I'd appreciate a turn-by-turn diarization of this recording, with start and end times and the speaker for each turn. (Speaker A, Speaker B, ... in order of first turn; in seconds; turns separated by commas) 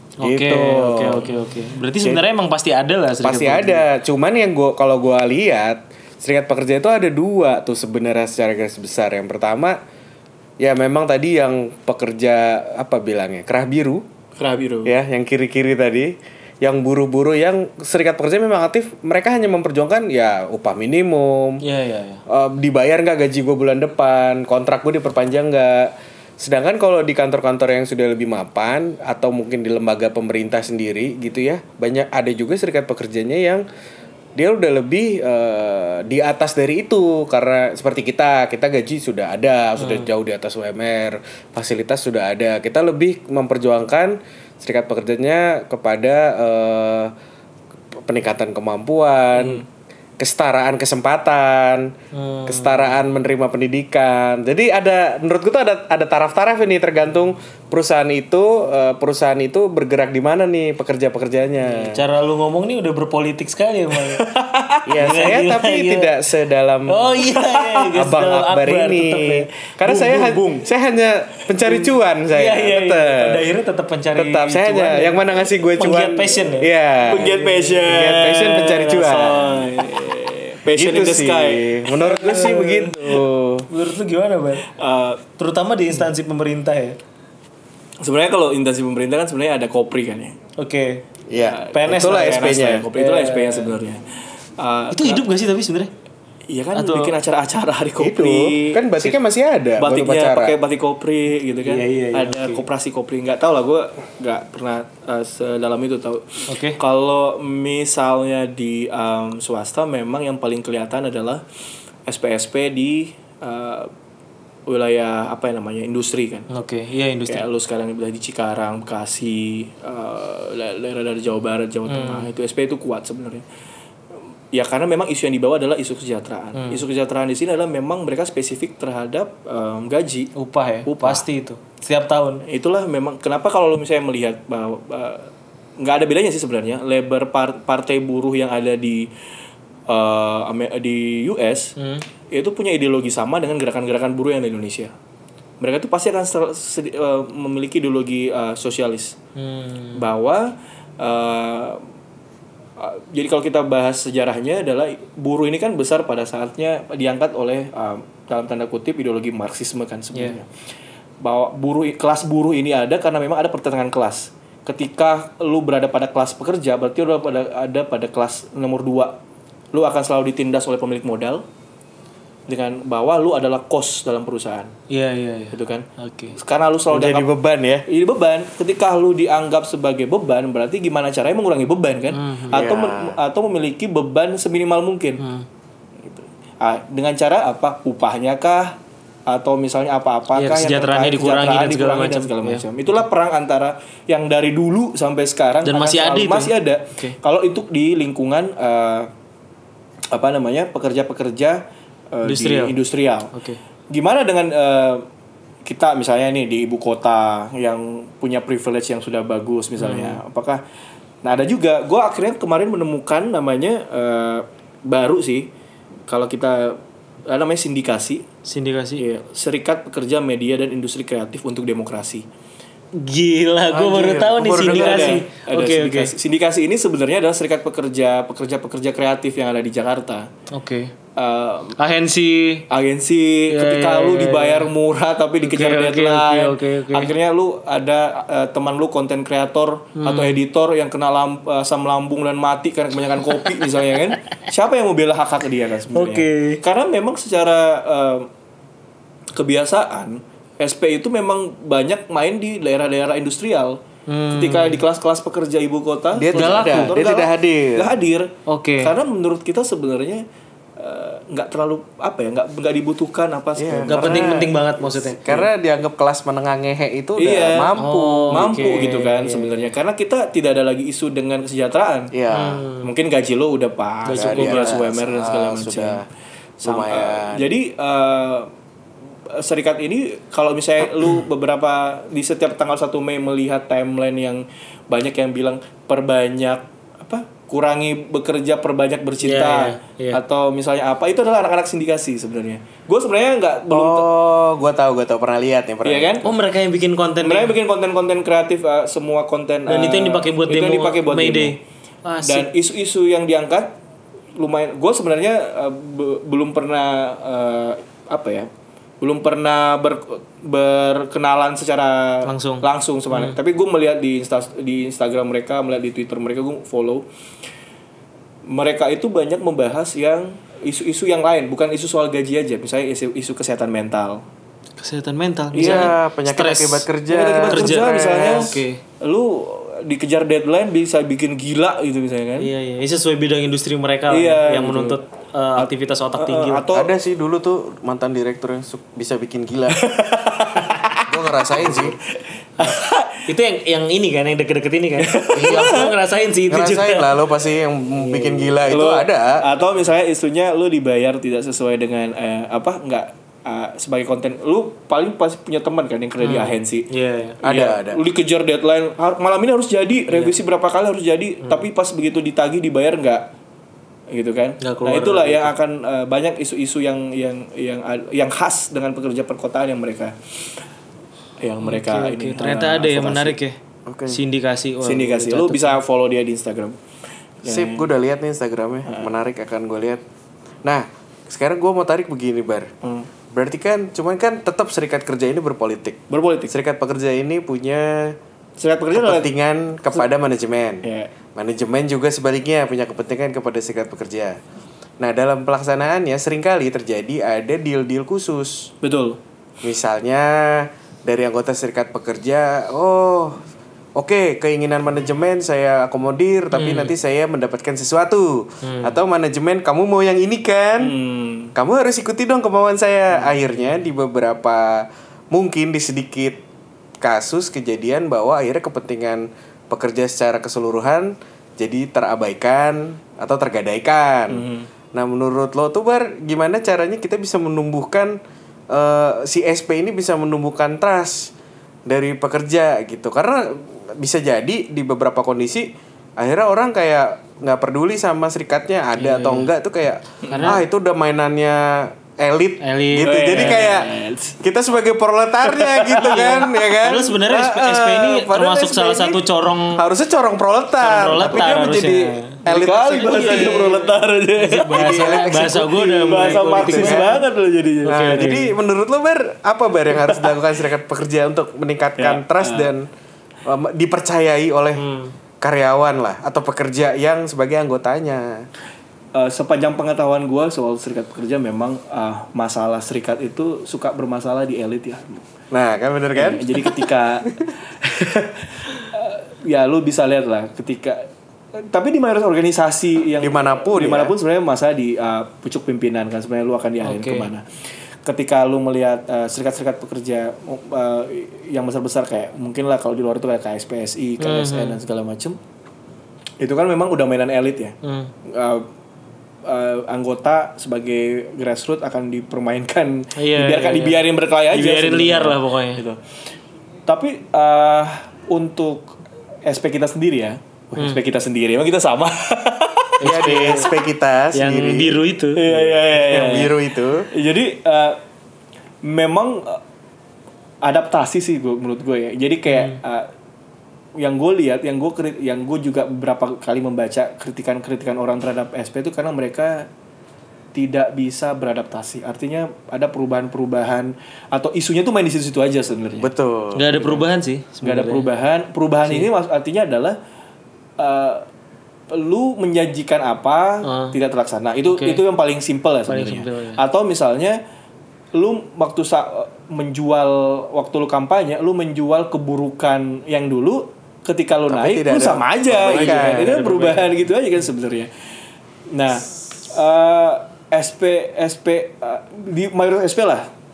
Speaker A: 0.2-3.8, Speaker B: 0.2-1.3, Speaker B: 3.2-9.8, Speaker B: 10.6-14.0, Speaker C: 14.4-14.9, Speaker B: 14.8-21.6, Speaker A: 21.6-22.2, Speaker B: 22.3-33.6, Speaker B: 34.4-47.1, Speaker A: 39.8-40.1, Speaker B: 48.0-49.6, Speaker C: 49.3-49.6, Speaker B: 50.2-51.9, Speaker A: 52.1-53.0, Speaker B: 52.5-62.0, Speaker A: 61.7-64.2, Speaker C: 63.9-65.3, Speaker B: 64.9-67.2, Speaker A: 65.0-66.1, Speaker A: 66.9-70.4, Speaker B: 67.9-73.4, Speaker C: 70.1-70.4, Speaker A: 72.3-77.8, Speaker B: 74.2-79.7, Speaker C: 77.0-83.2, Speaker A: 79.0-79.8, Speaker B: 80.8-83.7, Speaker A: 83.7-84.7, Speaker C: 84.7-85.2, Speaker A: 85.4-87.0, Speaker C: 88.0-90.4, Speaker A: 90.6-91.0, Speaker B: 91.3-92.9, Speaker C: 91.3-95.2, Speaker A: 91.7-93.7, Speaker A: 94.9-95.9, Speaker C: 96.5-99.2, Speaker A: 96.8-97.1, Speaker B: 98.0-100.6, Speaker C: 99.8-111.4, Speaker A: 101.7-102.6, Speaker A: 106.5-106.8, Speaker C: 112.1-113.9, Speaker C: 114.7-116.5, Speaker A: 116.5-117.5, Speaker C: 117.3-123.4, Speaker A: 121.9-122.3, Speaker C: 124.5-130.3, Speaker A: 126.6-126.8, Speaker A: 130.3-132.4, Speaker C: 130.9-131.2, Speaker C: 132.5-139.1, Speaker C: 139.9-141.7, Speaker A: 141.8-142.1, Speaker C: 142.3-144.9, Speaker C: 145.6-149.2, Speaker A: 149.4-150.0, Speaker C: 150.0-151.8, Speaker C: 152.8-160.5, Speaker C: 161.2-169.2, Speaker C: 169.7-171.4, Speaker C: 172.5-174.7, Speaker A: 174.9-176.4, Speaker C: 175.5-177.3, Speaker B: 176.9-177.9, Speaker C: 177.9-185.2, Speaker A: 182.1-182.6, Speaker B: 182.5-183.2, Speaker A: 185.2-185.5, Speaker C: 186.0-199.1, Speaker A: 190.3-192.7, Speaker A: 195.7-197.2, Speaker C: 200.1-203.3, Speaker A: 202.2-202.8, Speaker A: 203.3-203.6, Speaker C: 203.9-205.1, Speaker C: 205.7-210.6, Speaker A: 209.8-210.2, Speaker C: 211.2-215.5, Speaker C: 216.1-218.2, Speaker A: 218.4-219.0, Speaker C: 219.0-222.3, Speaker A: 222.9-226.1, Speaker B: 223.7-225.2, Speaker C: 224.5-230.3, Speaker A: 230.5-230.9, Speaker C: 231.2-231.8, Speaker A: 231.8-232.7, Speaker C: 232.7-248.3, Speaker A: 233.5-234.7, Speaker A: 235.4-237.1, Speaker A: 240.0-240.4, Speaker A: 245.9-246.6, Speaker C: 249.3-253.8, Speaker A: 254.1-254.8, Speaker C: 254.3-260.2, Speaker B: 256.2-257.9, Speaker A: 256.3-256.9, Speaker A: 258.5-258.9, Speaker C: 260.8-264.4, Speaker B: 263.6-268.6, Speaker A: 263.9-265.2, Speaker C: 267.2-267.7, Speaker A: 267.8-269.5, Speaker C: 268.3-272.1, Speaker B: 272.1-272.6, Speaker A: 272.3-272.9, Speaker C: 272.8-276.0, Speaker A: 274.1-274.8, Speaker B: 274.2-276.1, Speaker C: 276.6-278.5, Speaker B: 276.6-277.5, Speaker C: 279.3-294.1, Speaker A: 289.2-290.2, Speaker B: 293.7-296.2, Speaker C: 295.8-296.3, Speaker A: 296.2-297.6, Speaker C: 297.2-301.6, Speaker A: 299.7-302.5, Speaker C: 302.2-303.8, Speaker C: 304.4-308.5, Speaker C: 309.0-317.1, Speaker A: 312.2-313.4, Speaker C: 318.5-324.2, Speaker A: 324.8-326.9, Speaker C: 325.6-325.9, Speaker B: 325.6-328.6, Speaker C: 327.1-332.5, Speaker A: 327.5-328.8, Speaker A: 332.4-336.6, Speaker C: 334.1-335.0, Speaker C: 335.6-336.9, Speaker B: 336.7-339.8, Speaker C: 339.7-341.9, Speaker B: 341.1-342.0, Speaker C: 342.6-343.2, Speaker A: 342.6-347.1, Speaker C: 345.0-345.9, Speaker B: 345.3-345.9, Speaker B: 346.5-349.5, Speaker A: 348.0-348.6, Speaker C: 348.7-356.9, Speaker A: 356.2-357.4, Speaker B: 357.4-358.0, Speaker C: 357.4-363.3, Speaker A: 360.1-360.4, Speaker C: 364.1-370.2, Speaker A: 364.6-365.5, Speaker C: 371.4-373.4, Speaker A: 371.6-373.6, Speaker B: 373.9-374.2, Speaker A: 374.1-375.8, Speaker C: 374.8-376.8, Speaker C: 377.4-377.9, Speaker B: 377.5-380.0, Speaker C: 378.9-379.1, Speaker B: 380.6-382.7, Speaker C: 382.8-383.1, Speaker B: 383.3-388.2, Speaker C: 386.1-386.6, Speaker C: 388.6-389.3, Speaker B: 388.9-394.4, Speaker C: 390.8-391.1, Speaker B: 395.0-398.7, Speaker C: 398.8-399.2, Speaker B: 399.6-403.4, Speaker B: 404.0-410.9, Speaker A: 406.5-406.9, Speaker A: 408.6-409.0, Speaker C: 410.8-411.5, Speaker B: 411.6-416.4, Speaker B: 417.0-428.2, Speaker C: 424.3-424.7, Speaker B: 428.7-431.3, Speaker B: 431.9-449.2, Speaker A: 439.0-439.5, Speaker C: 440.2-440.6, Speaker A: 440.3-440.6, Speaker A: 442.6-443.7, Speaker C: 442.9-444.4, Speaker C: 445.4-446.5, Speaker A: 446.0-449.8, Speaker B: 449.8-453.9, Speaker A: 450.8-452.4, Speaker C: 452.4-458.4, Speaker A: 453.1-453.8, Speaker A: 454.4-457.2, Speaker B: 454.7-457.2, Speaker A: 457.9-458.5, Speaker B: 457.9-462.9, Speaker C: 459.9-460.3, Speaker C: 462.0-462.7, Speaker B: 463.5-464.8, Speaker A: 464.8-465.1, Speaker B: 465.4-468.5, Speaker C: 469.1-475.2, Speaker B: 475.5-478.3, Speaker C: 476.1-477.3, Speaker C: 478.9-487.4, Speaker B: 483.2-484.1, Speaker A: 486.8-487.3, Speaker C: 488.1-495.4, Speaker A: 494.2-494.8, Speaker C: 496.4-498.7, Speaker A: 497.8-498.1, Speaker C: 499.5-506.0, Speaker A: 503.2-505.8, Speaker C: 506.9-508.9, Speaker C: 509.5-513.0, Speaker A: 513.0-513.7, Speaker B: 513.0-515.0, Speaker A: 514.3-515.7, Speaker C: 515.4-516.6, Speaker B: 516.0-517.1, Speaker C: 517.1-518.0, Speaker C: 518.8-519.6, Speaker C: 520.6-523.1, Speaker A: 522.5-522.8, Speaker C: 524.0-529.7, Speaker C: 530.5-536.1, Speaker B: 536.0-536.7, Speaker A: 536.5-538.1, Speaker C: 536.8-537.0, Speaker C: 537.6-540.0, Speaker C: 540.8-541.2, Speaker C: 541.9-547.4, Speaker A: 543.6-544.0, Speaker A: 544.7-545.0, Speaker A: 545.9-546.6, Speaker C: 548.1-557.9, Speaker B: 554.5-556.4, Speaker A: 555.5-557.0, Speaker C: 558.7-563.3